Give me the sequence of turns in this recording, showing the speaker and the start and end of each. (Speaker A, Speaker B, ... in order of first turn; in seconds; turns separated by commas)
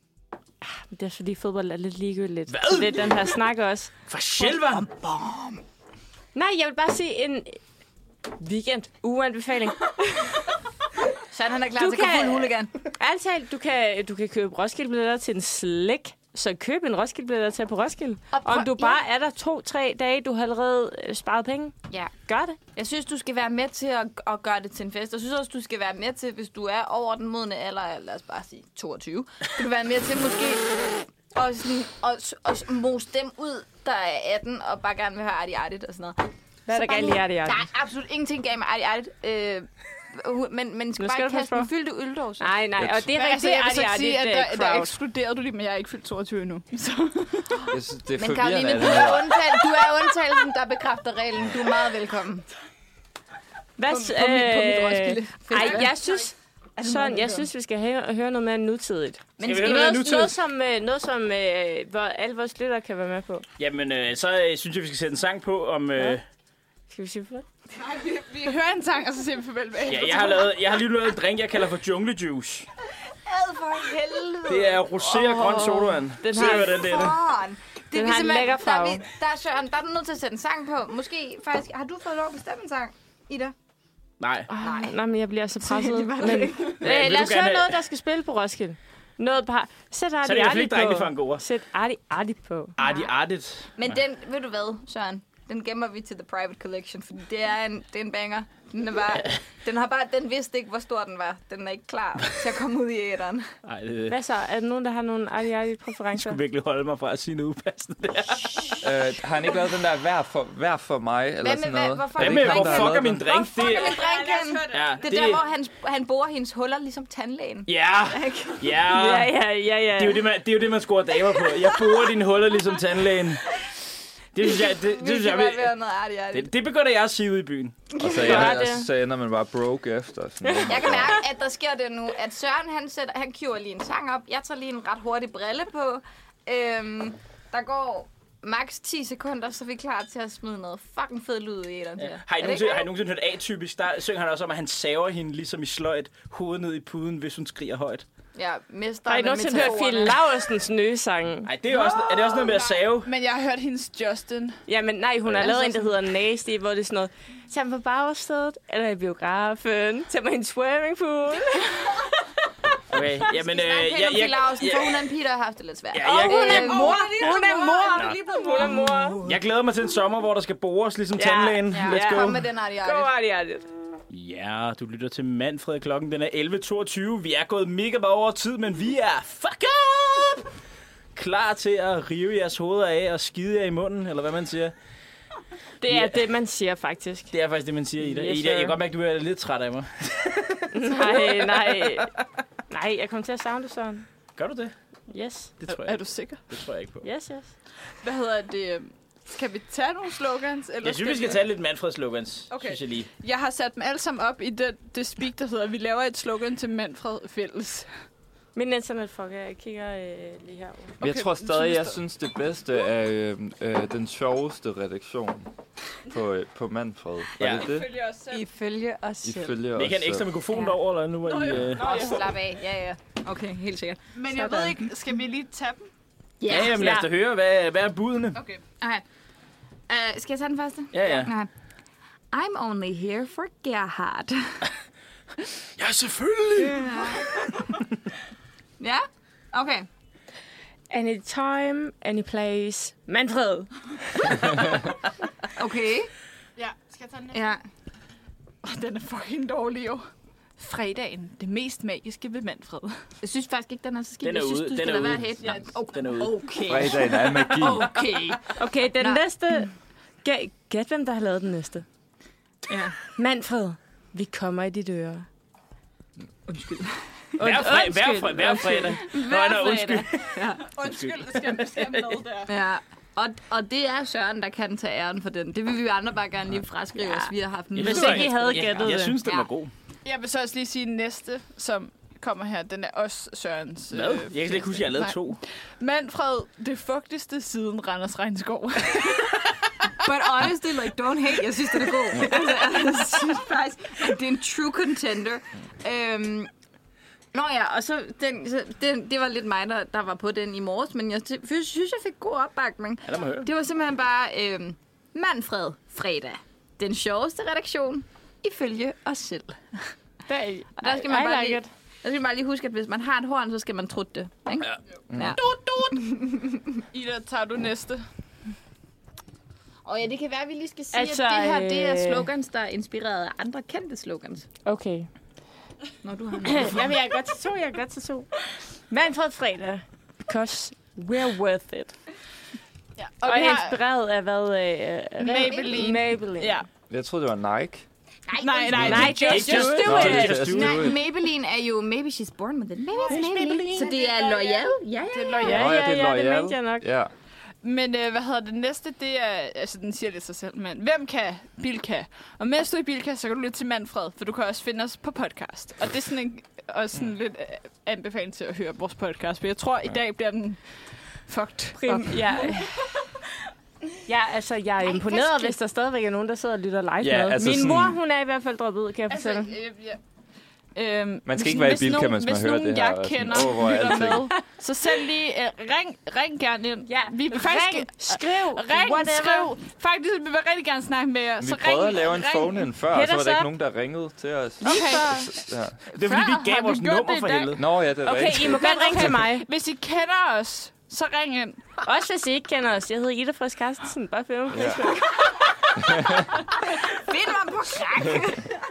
Speaker A: 0.6-3.9, Speaker B: 2.5-3.4, Speaker B: 4.1-4.9, Speaker C: 4.3-5.6, Speaker A: 6.3-7.6, Speaker A: 8.4-10.3, Speaker C: 11.3-12.7, Speaker A: 11.8-22.6, Speaker C: 18.3-19.0, Speaker C: 22.7-42.5, Speaker A: 36.7-37.7, Speaker A: 41.0-41.7, Speaker A: 42.4-44.9, Speaker D: 43.1-47.7, Speaker E: 47.7-49.4, Speaker C: 48.1-52.5, Speaker A: 53.8-63.4, Speaker C: 53.9-56.0, Speaker D: 55.5-55.9, Speaker C: 56.8-57.5, Speaker C: 59.4-60.3, Speaker B: 59.4-60.3, Speaker B: 63.6-66.2, Speaker A: 66.9-67.4, Speaker C: 67.8-68.5, Speaker D: 68.4-70.5, Speaker B: 69.9-72.7, Speaker C: 73.2-75.2, Speaker B: 74.5-77.2, Speaker A: 75.1-76.8, Speaker C: 76.3-83.5, Speaker A: 77.9-79.0, Speaker B: 84.2-84.5, Speaker A: 84.5-92.8, Speaker C: 84.6-85.0, Speaker C: 85.6-86.9, Speaker B: 86.8-87.8, Speaker B: 90.2-91.4, Speaker B: 92.8-93.7, Speaker C: 92.8-93.1, Speaker C: 93.8-103.5, Speaker B: 103.6-104.2, Speaker A: 104.1-106.4, Speaker B: 106.1-108.8, Speaker E: 108.8-113.3, Speaker C: 111.4-118.8, Speaker B: 112.2-114.0, Speaker D: 113.6-114.9, Speaker B: 114.7-115.4, Speaker B: 117.7-119.4, Speaker A: 118.9-120.3, Speaker B: 120.0-123.5, Speaker B: 124.3-125.7, Speaker C: 124.4-126.5, Speaker B: 126.3-128.5, Speaker C: 128.0-128.4, Speaker E: 128.0-131.1, Speaker A: 128.0-128.9, Speaker A: 130.4-130.7, Speaker C: 130.7-142.9, Speaker B: 142.0-148.0, Speaker C: 148.3-150.2, Speaker A: 149.1-151.5, Speaker B: 151.4-153.1, Speaker D: 151.7-154.6, Speaker A: 154.7-162.3, Speaker C: 155.4-155.8, Speaker B: 162.9-165.0, Speaker C: 163.2-169.4, Speaker B: 165.9-167.3, Speaker A: 166.0-169.2, Speaker B: 169.2-172.4, Speaker A: 171.2-173.7, Speaker C: 171.7-173.1, Speaker B: 174.1-180.5, Speaker B: 181.1-184.7, Speaker A: 185.8-187.3, Speaker B: 185.9-186.2, Speaker B: 187.3-192.1, Speaker A: 188.0-188.8, Speaker A: 190.7-192.1, Speaker A: 192.7-194.1, Speaker B: 194.3-194.7, Speaker A: 195.1-195.6, Speaker B: 195.6-197.1, Speaker D: 195.7-196.4, Speaker A: 197.0-197.5, Speaker D: 198.0-201.4, Speaker B: 200.8-203.1, Speaker D: 202.5-207.9, Speaker A: 208.5-210.9, Speaker D: 211.0-212.0, Speaker E: 211.0-215.5, Speaker E: 216.1-217.9, Speaker B: 217.4-217.7, Speaker D: 217.5-218.4, Speaker C: 218.3-219.6, Speaker E: 219.2-220.4, Speaker B: 219.7-221.8, Speaker D: 221.3-222.3, Speaker C: 221.7-224.9, Speaker D: 224.1-225.9, Speaker C: 226.4-226.9, Speaker B: 226.5-228.4, Speaker A: 226.5-227.1, Speaker D: 228.3-228.6, Speaker C: 229.9-231.5, Speaker B: 230.9-231.3, Speaker C: 232.3-234.6, Speaker B: 235.8-237.8, Speaker C: 236.6-237.3, Speaker D: 236.6-236.9, Speaker C: 238.8-239.9, Speaker A: 240.9-244.5, Speaker C: 245.5-246.1, Speaker D: 246.6-247.6, Speaker C: 247.3-247.6, Speaker D: 248.6-250.0, Speaker D: 250.6-253.0, Speaker C: 253.2-259.2, Speaker B: 254.2-256.4, Speaker E: 256.6-258.0, Speaker A: 258.6-259.7, Speaker A: 260.2-261.8, Speaker C: 262.7-262.9, Speaker A: 263.0-265.2, Speaker C: 266.5-267.6, Speaker A: 267.4-269.2, Speaker B: 267.4-272.2, Speaker C: 268.9-270.7, Speaker D: 270.6-272.5, Speaker C: 272.5-279.5, Speaker A: 276.9-277.3, Speaker B: 277.7-279.7, Speaker D: 277.9-278.1, Speaker A: 277.9-279.0, Speaker D: 280.0-289.9, Speaker B: 283.9-285.4, Speaker C: 290.0-296.5, Speaker C: 297.3-309.9, Speaker B: 303.1-303.5, Speaker A: 310.3-311.7, Speaker C: 310.8-316.8, Speaker E: 315.1-315.4, Speaker D: 315.4-316.1, Speaker D: 316.9-318.0, Speaker C: 319.8-324.5, Speaker A: 320.9-322.3, Speaker A: 324.6-325.1, Speaker C: 326.0-326.9, Speaker A: 326.4-328.3, Speaker A: 328.9-331.9, Speaker D: 333.0-333.8, Speaker A: 333.2-336.6, Speaker D: 335.2-336.6, Speaker E: 336.9-337.9, Speaker C: 338.3-339.1, Speaker D: 338.4-340.5, Speaker B: 338.7-340.9, Speaker A: 338.8-340.6, Speaker E: 338.8-339.1, Speaker E: 339.8-341.0, Speaker C: 340.5-345.6, Speaker D: 343.0-345.8, Speaker B: 343.1-344.0, Speaker A: 345.4-346.9, Speaker E: 345.4-347.1, Speaker D: 347.6-362.6, Speaker A: 361.8-362.7, Speaker A: 364.1-369.6, Speaker D: 364.9-365.4, Speaker E: 367.0-368.0, Speaker D: 367.4-367.8, Speaker D: 369.1-370.0, Speaker D: 370.7-382.7, Speaker E: 371.2-374.3, Speaker A: 373.7-374.1, Speaker A: 376.8-379.5, Speaker E: 381.4-385.8, Speaker A: 382.9-383.5, Speaker A: 384.6-385.3, Speaker D: 384.6-387.6, Speaker B: 385.9-387.6, Speaker E: 387.6-389.1, Speaker A: 388.0-389.5, Speaker D: 388.4-391.8, Speaker A: 391.8-395.7, Speaker E: 394.5-395.0, Speaker E: 395.8-396.4, Speaker C: 396.6-398.6